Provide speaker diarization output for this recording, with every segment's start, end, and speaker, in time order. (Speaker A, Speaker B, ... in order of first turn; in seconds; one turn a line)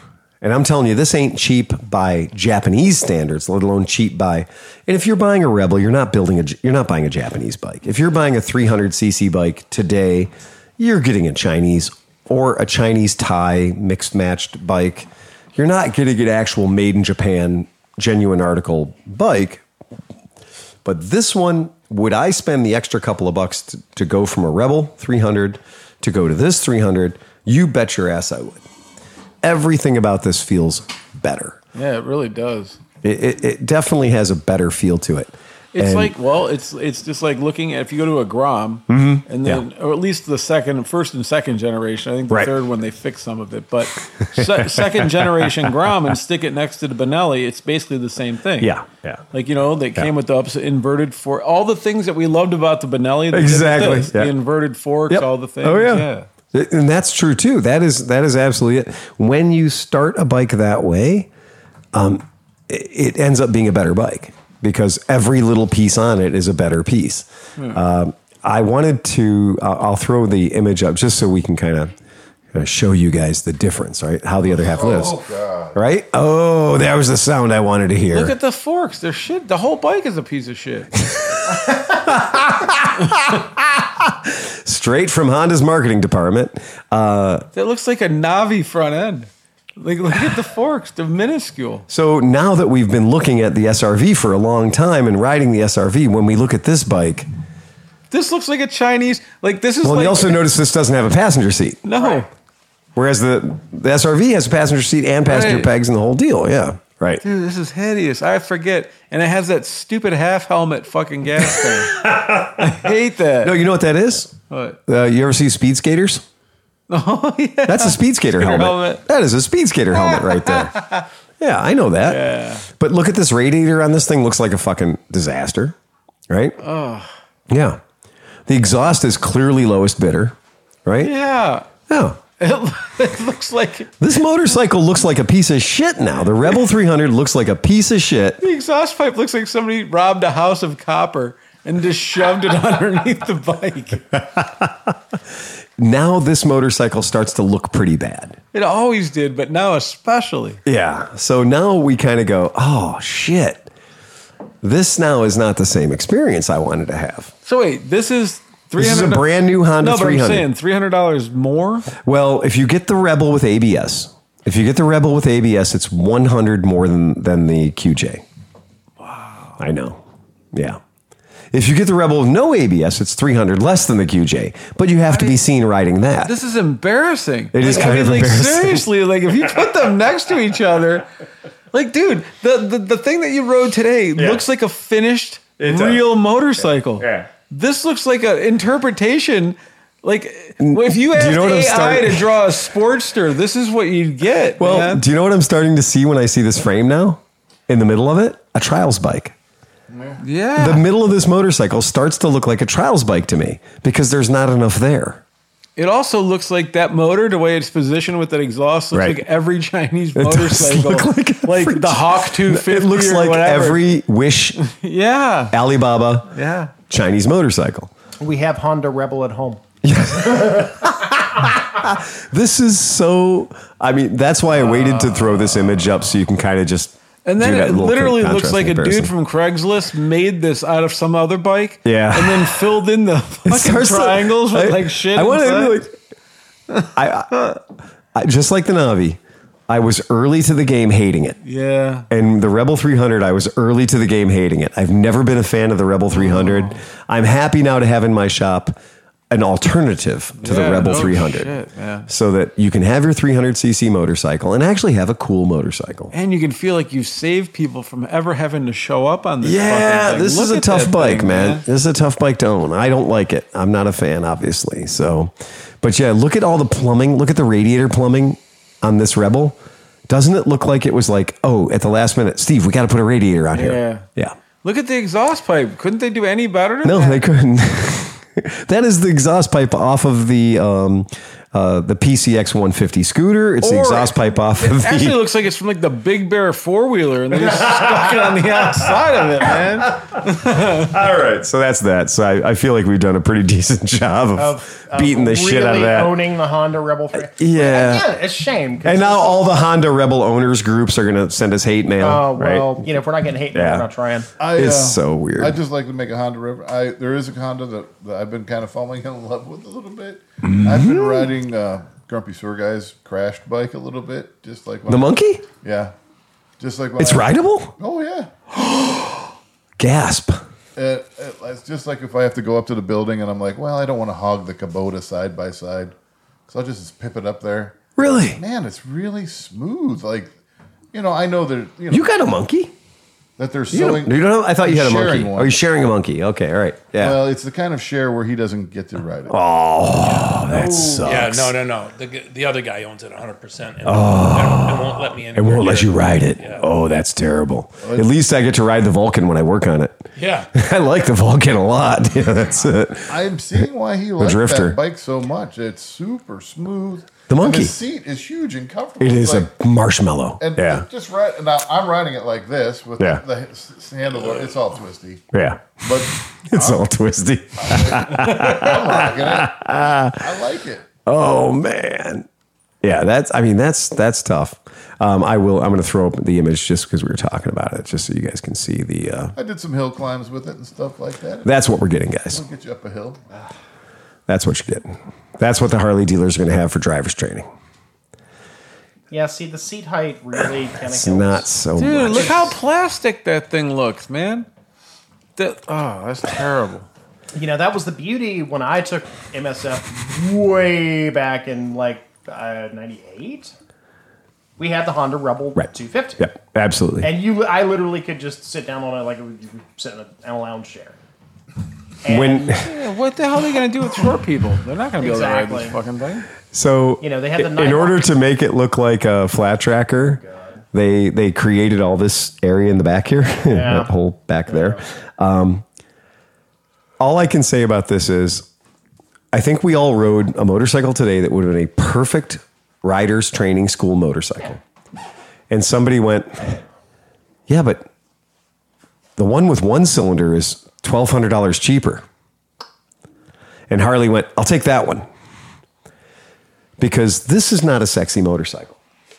Speaker A: 0.4-19.6
Speaker A: 20.8-28.6
Speaker A: 29.4-31.6
Speaker B: 31.7-32.8
Speaker A: 33.0-36.1
Speaker B: 35.7-48.7
Speaker A: 38.9-39.6
Speaker A: 44.4-45.7
Speaker A: 48.6-49.2
Speaker B: 49.3-56.3
Speaker A: 53.3-54.3
Speaker A: 55.1-61.3
Speaker A: 61.9-71.9
Speaker A: 72.5-75.2
Speaker C: 74.6-75.8
Speaker A: 75.7-78.3
Speaker B: 78.1-81.0
Speaker A: 81.5-87.5
Speaker B: 87.5-91.8
Speaker A: 91.9-97.3
Speaker B: 98.1-100.3
Speaker A: 99.8-101.8
Speaker B: 101.8-102.3
Speaker A: 103.0-107.2
Speaker B: 105.2-105.7
Speaker B: 107.2-113.6
Speaker A: 111.5-112.9
Speaker A: 113.4-116.2
Speaker B: 114.5-114.8
Speaker B: 116.9-119.0
Speaker A: 117.7-120.8
Speaker B: 120.0-121.0
Speaker A: 121.4-125.7
Speaker B: 122.0-122.7
Speaker A: 126.3-126.6
Speaker B: 126.6-127.1
Speaker A: 127.5-127.8
Speaker A: 128.5-131.1
Speaker B: 131.0-131.7
Speaker A: 131.9-132.2
Speaker B: 132.4-133.9
Speaker A: 134.0-138.4
Speaker B: 138.4-144.2
Speaker A: 144.4-144.9
Speaker A: 145.8-148.4
Speaker B: 148.5-150.6
Speaker A: 150.6-153.7
Speaker A: 154.6-157.3
Speaker B: 157.4-159.3
Speaker A: 158.8-160.5
Speaker B: 159.8-161.9
Speaker A: 161.9-168.2
Speaker B: 169.0-169.6
Speaker A: 169.6-170.0
Speaker A: 170.5-170.8
Speaker A: 171.5-176.3
Speaker B: 175.1-175.3
Speaker B: 176.2-181.1
Speaker A: 177.5-178.9
Speaker B: 181.7-195.0
Speaker A: 184.2-184.4
Speaker A: 185.6-186.0
Speaker A: 187.0-187.3
Speaker A: 190.6-192.3
Speaker A: 194.6-199.3
Speaker C: 199.9-200.2
Speaker B: 200.2-200.8
Speaker A: 200.6-205.2
Speaker B: 205.8-213.8
Speaker A: 208.9-209.2
Speaker A: 210.1-214.6
Speaker B: 214.6-215.6
Speaker A: 215.5-217.9
Speaker B: 216.3-216.7
Speaker D: 218.2-219.6
Speaker A: 219.8-229.1
Speaker B: 224.6-225.4
Speaker B: 227.2-235.8
Speaker A: 231.8-232.7
Speaker A: 233.4-235.9
Speaker B: 236.7-237.6
Speaker A: 236.9-237.5
Speaker A: 238.1-241.4
Speaker B: 241.4-242.1
Speaker A: 242.1-248.8
Speaker B: 246.2-246.8
Speaker A: 249.3-251.5
Speaker B: 250.4-252.1
Speaker A: 252.1-256.1
Speaker B: 256.1-261.6
Speaker A: 259.4-274.3
Speaker B: 273.5-274.1
Speaker B: 274.6-277.2
Speaker A: 276.8-285.2
Speaker B: 283.6-291.0
Speaker A: 290.7-296.2
Speaker D: 294.4-299.4
Speaker A: 297.2-298.1
Speaker A: 298.8-302.9
Speaker D: 302.0-304.3
Speaker A: 303.5-303.9
Speaker C: 304.4-315.1
Speaker A: 304.5-305.6
Speaker A: 310.4-311.3
Speaker A: 314.9-315.4
Speaker C: 315.6-315.9
Speaker C: 316.6-318.3
Speaker A: 317.0-317.8
Speaker A: 318.5-319.1
Speaker A: 319.8-320.4
Speaker C: 320.8-325.9
Speaker C: 326.5-330.4
Speaker A: 328.0-328.4
Speaker C: 330.9-332.1
Speaker A: 331.9-332.7
Speaker C: 333.4-335.6
Speaker A: 333.7-337.2
Speaker C: 337.0-339.4
Speaker A: 339.3-341.5
Speaker D: 340.5-341.2
Speaker E: 341.0-346.6
Speaker A: 343.8-353.2
Speaker C: 347.8-348.1
Speaker E: 350.1-350.5
Speaker C: 353.1-359.5
Speaker A: 354.2-354.8
Speaker A: 357.3-357.7
Speaker A: 359.0-360.9
Speaker C: 360.4-365.3
Speaker A: 365.3-370.3
Speaker C: 365.8-366.8
Speaker C: 367.6-370.8
Speaker A: 371.0-372.3
Speaker A: 372.8-379.4
Speaker C: 379.4-381.6
Speaker A: 381.4-382.4
Speaker C: 382.3-383.2
Speaker A: 384.3-387.5
Speaker D: 389.1-391.5
Speaker A: 390.9-392.6
Speaker B: 391.8-394.5
Speaker B: 395.4-396.9
Speaker D: 397.3-403.5
Speaker D: 404.6-406.3
Speaker A: 406.2-407.1
Speaker D: 407.0-411.0
Speaker D: 412.0-412.6
Speaker A: 412.1-412.7
Speaker B: 412.5-416.3
Speaker D: 415.0-415.8
Speaker A: 416.5-420.2
Speaker D: 417.0-418.0
Speaker D: 420.2-420.6
Speaker A: 420.7-425.6
Speaker D: 423.5-423.9
Speaker D: 424.5-424.8
Speaker A: 427.0-428.4
Speaker A: 429.3-434.6
Speaker A: 435.5-436.6
Speaker A: 437.5-437.9
Speaker A: 439.2-442.0
Speaker A: 443.7-445.1
Speaker A: 446.8-448.8